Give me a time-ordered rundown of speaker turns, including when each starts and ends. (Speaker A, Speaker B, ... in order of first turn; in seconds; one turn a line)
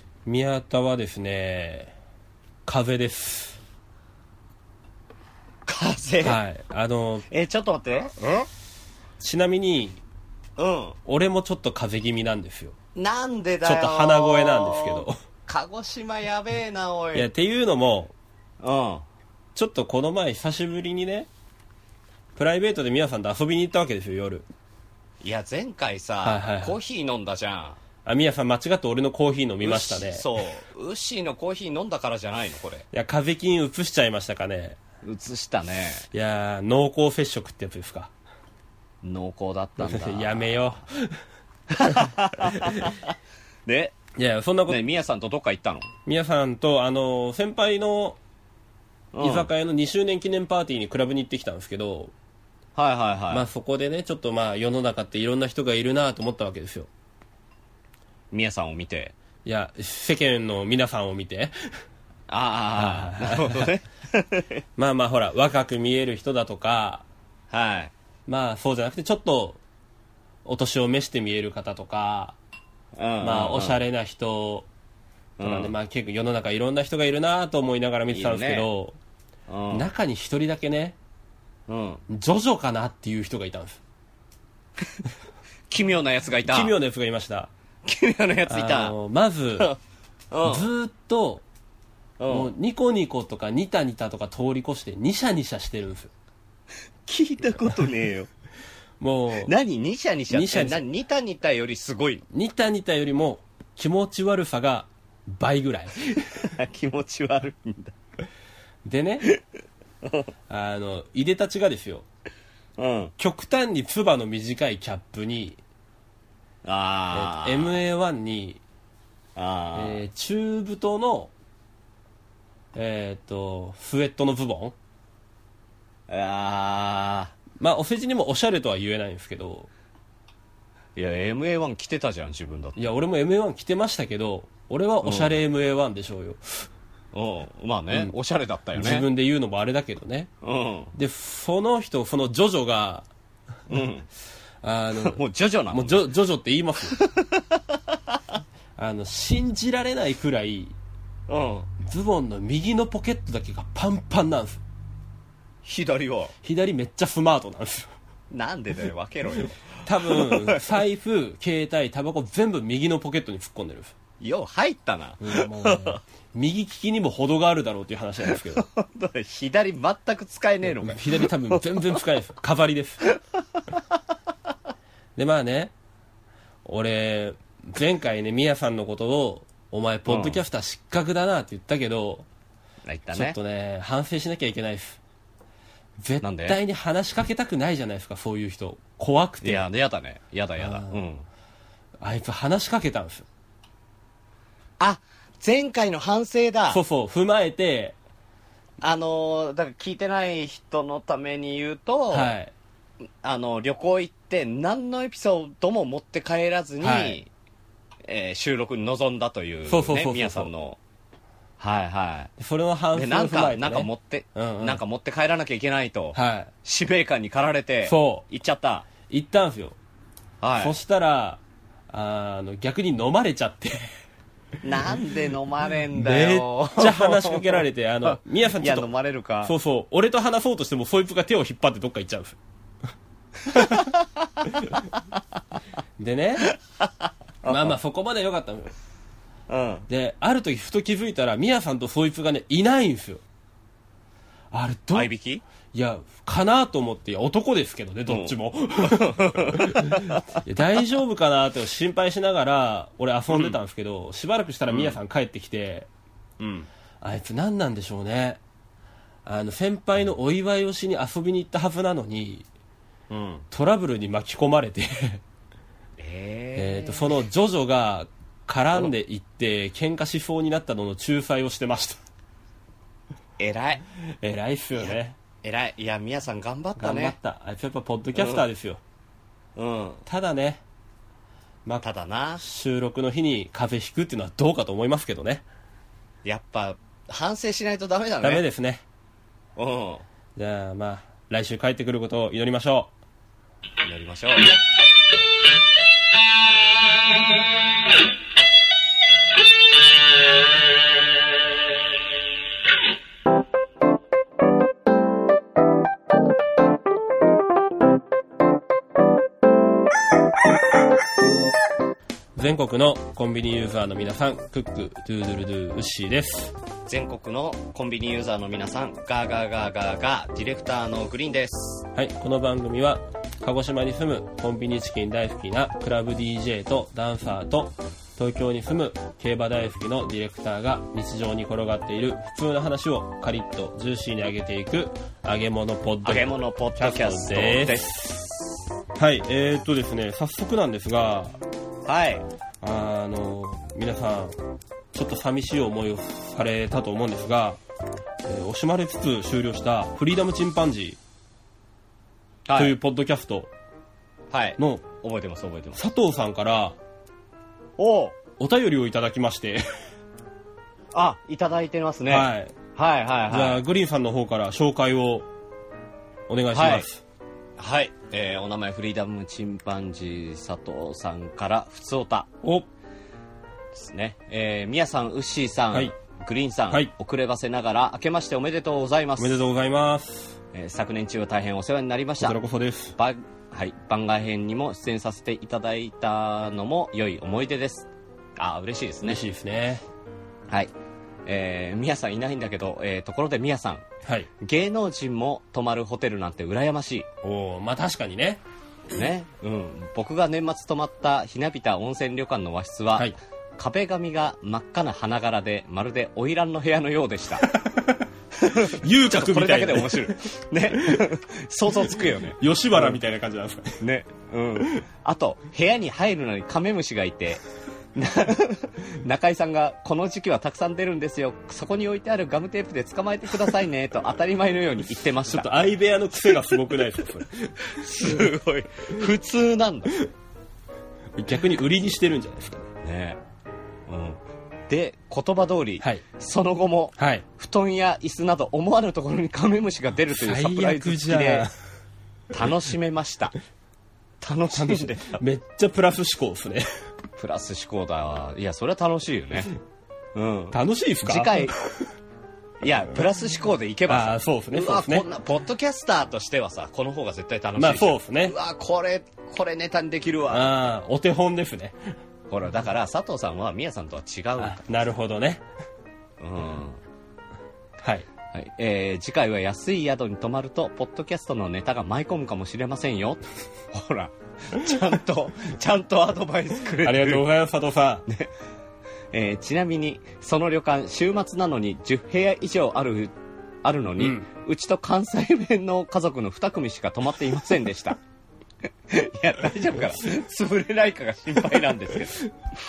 Speaker A: 0.2-1.9
Speaker A: 2.6-3.6
Speaker B: 5.7-6.4
Speaker A: 6.2-7.2
Speaker B: 7.3-8.5
Speaker A: 9.2-10.0
Speaker B: 10.6-11.0
Speaker A: 11.1-12.7
Speaker B: 12.9-17.3
Speaker A: 13.6-15.2
Speaker A: 17.1-18.1
Speaker B: 18.6-19.1
Speaker A: 19.5-21.3
Speaker A: 22.4-24.4
Speaker B: 25.2-27.8
Speaker A: 26.2-26.8
Speaker A: 28.0-30.2
Speaker B: 29.6-32.8
Speaker A: 32.9-34.8
Speaker B: 35.0-36.0
Speaker A: 36.1-38.1
Speaker B: 39.0-40.8
Speaker A: 39.8-41.2
Speaker B: 41.7-43.1
Speaker A: 42.4-42.9
Speaker B: 43.6-44.0
Speaker A: 44.1-44.8
Speaker B: 44.7-45.9
Speaker A: 46.0-48.2
Speaker B: 49.1-49.5
Speaker A: 49.2-52.1
Speaker B: 52.8-53.5
Speaker A: 53.3-56.9
Speaker B: 58.3-59.1
Speaker A: 59.4-61.5
Speaker B: 62.3-64.6
Speaker A: 62.8-63.7
Speaker A: 64.8-67.0
Speaker B: 67.5-67.9
Speaker A: 68.2-69.6
Speaker A: 70.4-72.3
Speaker B: 72.9-73.8
Speaker A: 73.2-74.7
Speaker B: 75.4-75.7
Speaker A: 75.4-79.0
Speaker B: 78.1-78.7
Speaker B: 79.5-79.9
Speaker A: 79.7-81.0
Speaker B: 81.7-82.0
Speaker A: 82.1-83.8
Speaker B: 85.7-86.7
Speaker A: 86.5-87.5
Speaker B: 87.8-88.9
Speaker A: 88.5-89.7
Speaker B: 90.3-90.7
Speaker A: 90.4-91.4
Speaker B: 92.2-92.5
Speaker A: 92.3-96.1
Speaker B: 97.1-98.3
Speaker A: 99.0-99.5
Speaker B: 99.4-102.2
Speaker A: 100.3-100.8
Speaker A: 102.3-106.0
Speaker B: 106.1-107.9
Speaker A: 108.8-109.3
Speaker A: 110.5-112.0
Speaker B: 112.8-113.1
Speaker A: 113.2-115.6
Speaker B: 116.6-117.8
Speaker A: 117.1-118.6
Speaker B: 119.3-120.0
Speaker A: 119.8-121.3
Speaker A: 122.7-124.7
Speaker B: 126.1-127.3
Speaker A: 127.6-129.7
Speaker B: 130.9-132.8
Speaker A: 132.8-136.7
Speaker B: 135.0-135.4
Speaker B: 137.1-139.1
Speaker A: 138.8-140.3
Speaker B: 140.4-140.9
Speaker A: 140.9-143.1
Speaker B: 143.7-144.1
Speaker A: 144.6-145.2
Speaker B: 145.0-146.0
Speaker A: 145.7-147.0
Speaker B: 146.9-148.2
Speaker A: 148.8-150.7
Speaker B: 151.3-151.7
Speaker A: 151.8-154.6
Speaker B: 155.6-156.3
Speaker A: 156.4-157.9
Speaker B: 158.3-160.7
Speaker A: 159.8-163.9
Speaker B: 164.2-166.0
Speaker A: 165.2-168.6
Speaker B: 168.3-172.0
Speaker A: 170.6-173.0
Speaker B: 173.1-173.8
Speaker A: 175.2-175.7
Speaker A: 176.6-182.2
Speaker B: 180.1-180.4
Speaker B: 182.8-183.4
Speaker A: 183.1-185.0
Speaker A: 186.0-189.7
Speaker B: 186.2-186.6
Speaker B: 189.4-191.2
Speaker A: 190.6-191.0
Speaker A: 192.0-193.2
Speaker B: 194.8-196.8
Speaker A: 196.7-197.9
Speaker B: 198.8-202.3
Speaker A: 202.1-202.5
Speaker B: 203.2-207.3
Speaker A: 206.8-207.2
Speaker B: 208.1-210.8
Speaker A: 209.7-210.5
Speaker B: 211.6-212.3
Speaker A: 212.4-214.8
Speaker B: 212.9-218.8
Speaker A: 216.1-216.5
Speaker A: 217.8-218.2
Speaker A: 219.1-219.8
Speaker B: 220.4-220.8
Speaker A: 220.6-223.9
Speaker B: 224.6-227.6
Speaker A: 225.9-228.9
Speaker B: 228.1-229.5
Speaker A: 229.4-232.4
Speaker B: 233.5-234.5
Speaker A: 233.5-233.8
Speaker A: 236.0-236.5
Speaker B: 236.5-237.7
Speaker A: 237.4-238.7
Speaker B: 239.5-239.9
Speaker A: 239.9-243.2
Speaker A: 244.5-245.1
Speaker B: 244.9-245.4
Speaker A: 245.7-255.9
Speaker B: 248.1-250.4
Speaker B: 253.3-253.6
Speaker B: 254.7-255.0
Speaker B: 256.4-256.7
Speaker A: 257.0-258.4
Speaker A: 259.2-262.4
Speaker B: 263.1-263.4
Speaker A: 263.5-265.2
Speaker B: 266.0-267.1
Speaker A: 266.6-272.0
Speaker B: 273.4-273.8
Speaker A: 274.2-275.2
Speaker B: 274.8-277.1
Speaker A: 276.8-278.8
Speaker B: 278.1-278.4
Speaker B: 279.6-280.0
Speaker A: 280.1-280.6
Speaker B: 281.8-282.4
Speaker A: 282.4-285.4
Speaker B: 286.2-288.4
Speaker A: 288.2-288.8
Speaker B: 289.6-290.0
Speaker A: 290.4-292.9
Speaker B: 293.8-294.5
Speaker A: 312.4-316.5
Speaker B: 316.9-321.8
Speaker A: 321.9-338.0
Speaker B: 336.0-338.4
Speaker A: 338.9-341.3
Speaker B: 341.9-342.2
Speaker A: 342.6-344.3
Speaker A: 344.9-347.6
Speaker A: 348.2-351.0
Speaker B: 352.4-352.8
Speaker A: 352.5-353.5
Speaker B: 354.3-355.8
Speaker A: 354.6-354.9
Speaker A: 355.8-356.8
Speaker B: 357.8-358.1
Speaker A: 358.4-359.6
Speaker B: 360.9-363.6
Speaker A: 362.1-362.5
Speaker A: 363.3-365.3
Speaker A: 366.3-367.0
Speaker B: 366.5-366.9
Speaker B: 367.6-372.3
Speaker B: 373.7-379.4
Speaker A: 379.2-380.4
Speaker B: 380.5-382.4
Speaker A: 382.2-382.9
Speaker B: 382.9-389.2
Speaker A: 389.0-389.8
Speaker B: 391.2-393.8
Speaker A: 394.0-394.3
Speaker B: 394.4-397.1
Speaker A: 397.2-398.4
Speaker B: 398.9-407.5
Speaker A: 407.5-408.0
Speaker B: 408.4-412.9
Speaker A: 408.6-410.1
Speaker A: 410.7-411.0
Speaker A: 412.4-413.8
Speaker B: 413.8-417.4
Speaker B: 417.9-425.6
Speaker A: 425.3-428.3
Speaker B: 427.6-429.9
Speaker A: 431.1-432.7
Speaker B: 432.8-433.2
Speaker B: 433.9-441.5
Speaker A: 437.0-437.2
Speaker A: 440.1-441.5
Speaker B: 442.3-443.3
Speaker B: 444.2-445.2
Speaker A: 444.5-446.6
Speaker B: 447.2-449.5
Speaker B: 450.1-451.5
Speaker A: 450.5-451.5
Speaker B: 452.6-460.7
Speaker A: 453.9-455.1
Speaker A: 457.6-458.3
Speaker A: 460.3-461.8
Speaker B: 462.3-464.8
Speaker A: 464.4-465.4
Speaker B: 466.2-466.8
Speaker A: 467.8-468.1
Speaker B: 468.3-477.2
Speaker A: 476.8-478.0
Speaker B: 479.1-483.1
Speaker B: 483.6-488.0
Speaker A: 484.0-484.2
Speaker B: 488.9-492.3